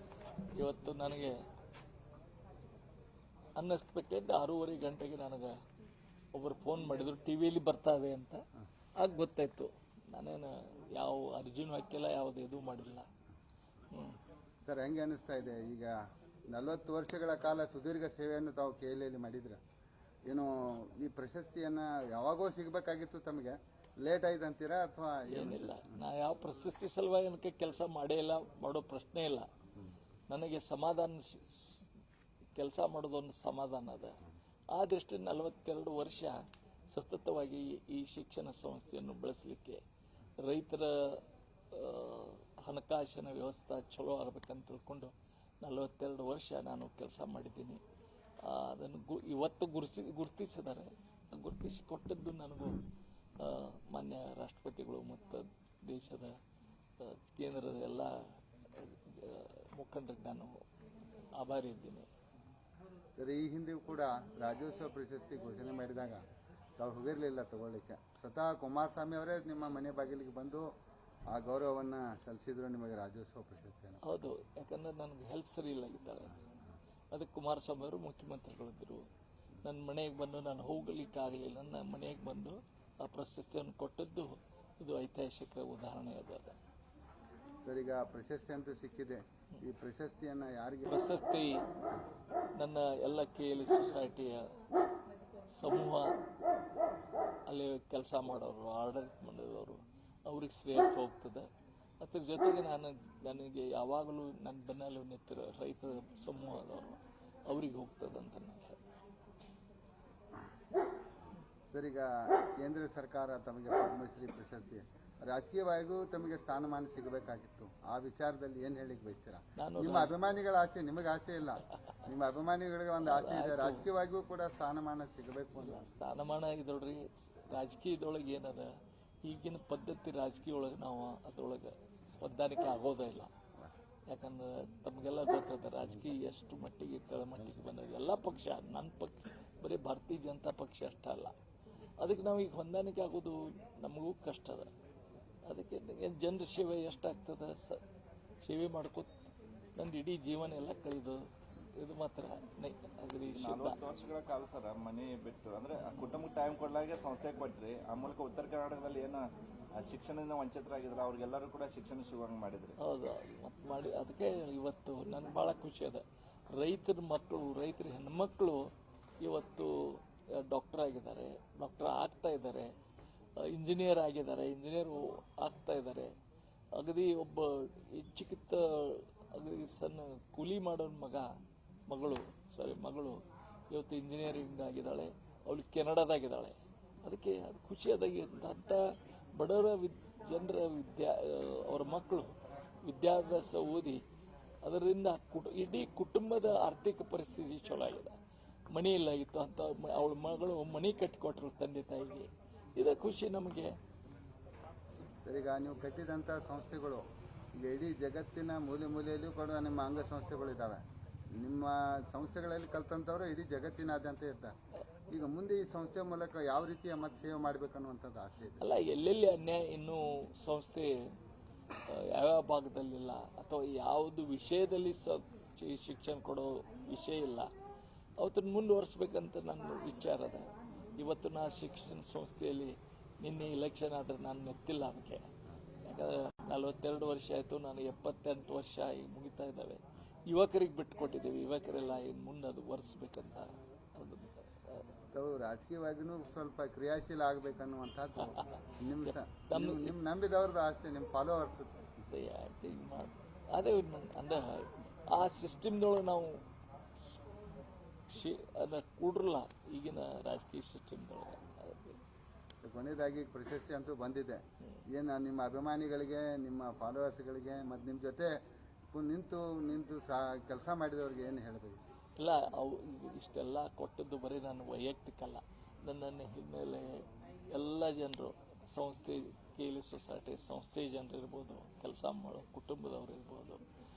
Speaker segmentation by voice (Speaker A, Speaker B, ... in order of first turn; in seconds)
Speaker A: 0.6-1.4, 3.6-5.5, 6.3-8.4, 9.0-13.1, 13.9-14.2, 25.3-29.5, 30.3-31.9, 32.6-34.2, 34.7-39.8, 40.4-47.8, 48.5-52.8, 53.4-56.3, 57.0-58.1, 58.7-60.6, 61.2-62.1, 74.0-76.4, 77.1-79.0, 79.6-86.6, 90.9-91.6, 92.6-94.5, 95.5-96.2, 97.5-101.5, 102.0-108.8, 119.6-120.2, 123.0-123.9, 125.6-128.7, 129.2-133.3, 134.1-141.3, 142.0-144.7, 145.5-147.8, 148.4-149.1, 149.8-151.2, 151.8-153.8, 162.8-168.7, 169.2-172.7, 173.4-176.1, 176.8-181.3, 181.9-192.3, 192.8-194.0, 194.6-198.2, 198.7-203.7, 218.6-221.1, 221.9-227.5, 228.2-235.3, 235.8-244.8, 249.0-250.0, 252.1-256.4, 258.1-262.0, 272.2-283.6
Speaker B: 14.7-16.0, 16.5-19.6, 20.3-25.9, 63.2-66.2, 66.8-70.7, 71.3-74.0, 87.6-91.0, 111.7-125.9, 205.3-207.0, 207.6-210.8, 211.4-214.5, 215.1-218.7, 245.1-251.8, 262.6-268.4, 268.9-271.8
Speaker C: 153.3-159.2, 159.8-162.8